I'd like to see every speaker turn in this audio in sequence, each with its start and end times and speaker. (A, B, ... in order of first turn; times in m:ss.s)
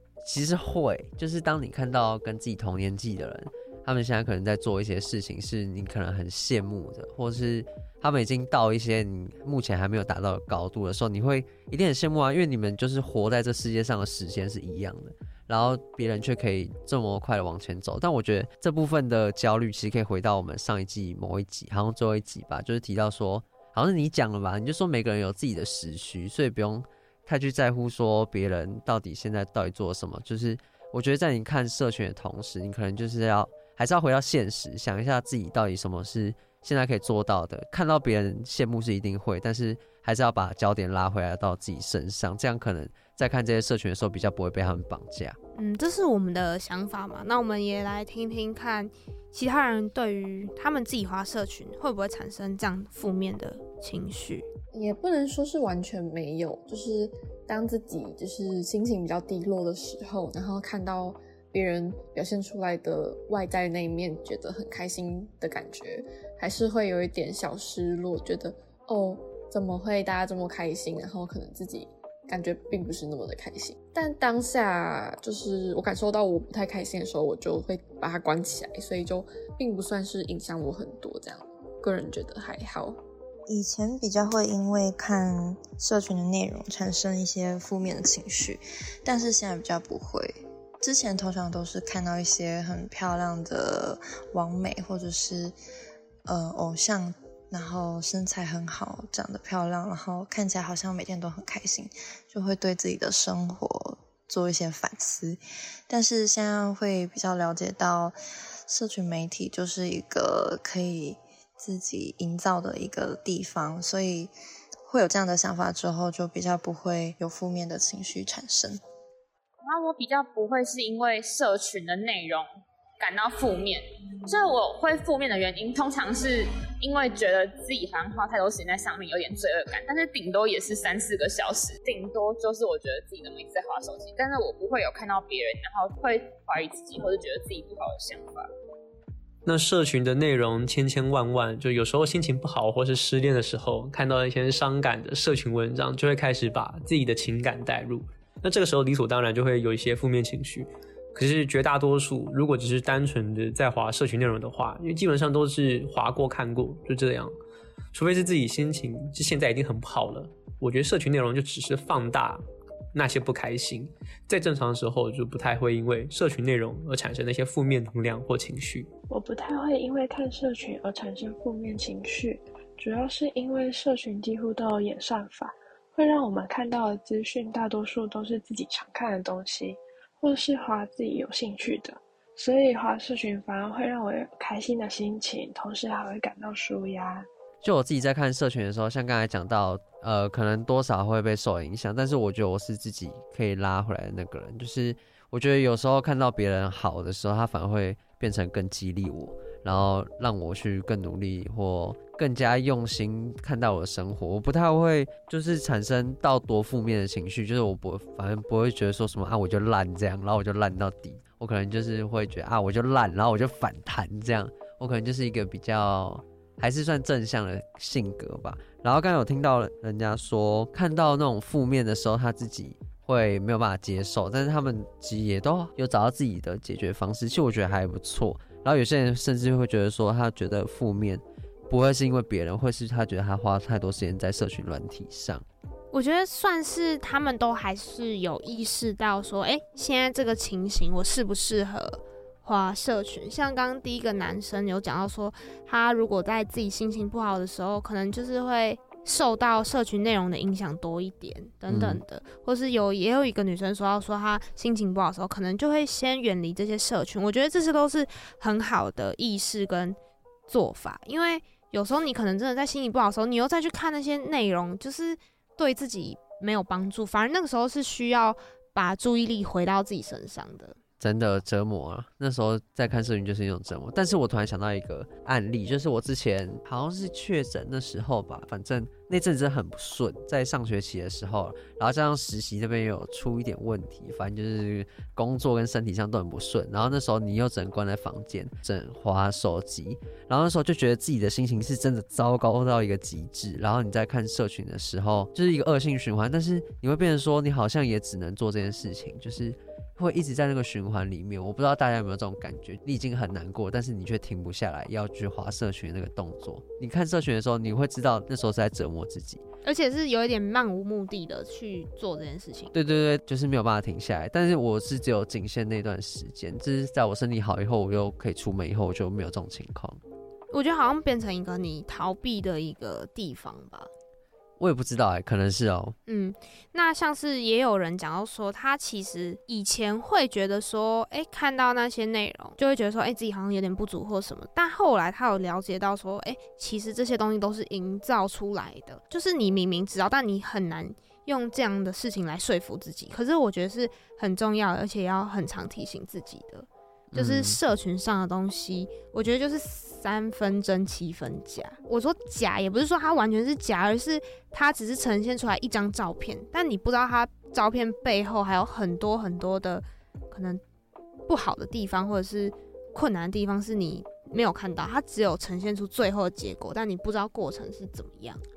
0:00.2-0:45.4 A
0:45.6-0:54.5 B
0:54.7-1:23.0 C
1:23.5-1:35.6 D
1:36.2-1:48.2 D
1:48.7-1:54.3 D
1:54.9-1:58.8 D
1:59.6-2:02.5 E
2:03.0-2:18.4 E
2:19.4-2:37.3 F
2:37.9-2:42.4 F
2:42.9-2:48.9 F
2:49.1-3:07.2 G
3:07.6-3:55.4 A
3:55.9-4:20.0 B
4:11.7-4:12.0 A
4:20.5-4:30.8 B
4:31.0-5:09.4 A
5:09.6-5:12.7 B
5:12.7-5:20.0 A
5:20.5-5:23.9 B
5:24.6-5:26.0 A
5:26.1-6:00.6 B
5:47.1-5:47.6 A
6:01.3-6:08.4 B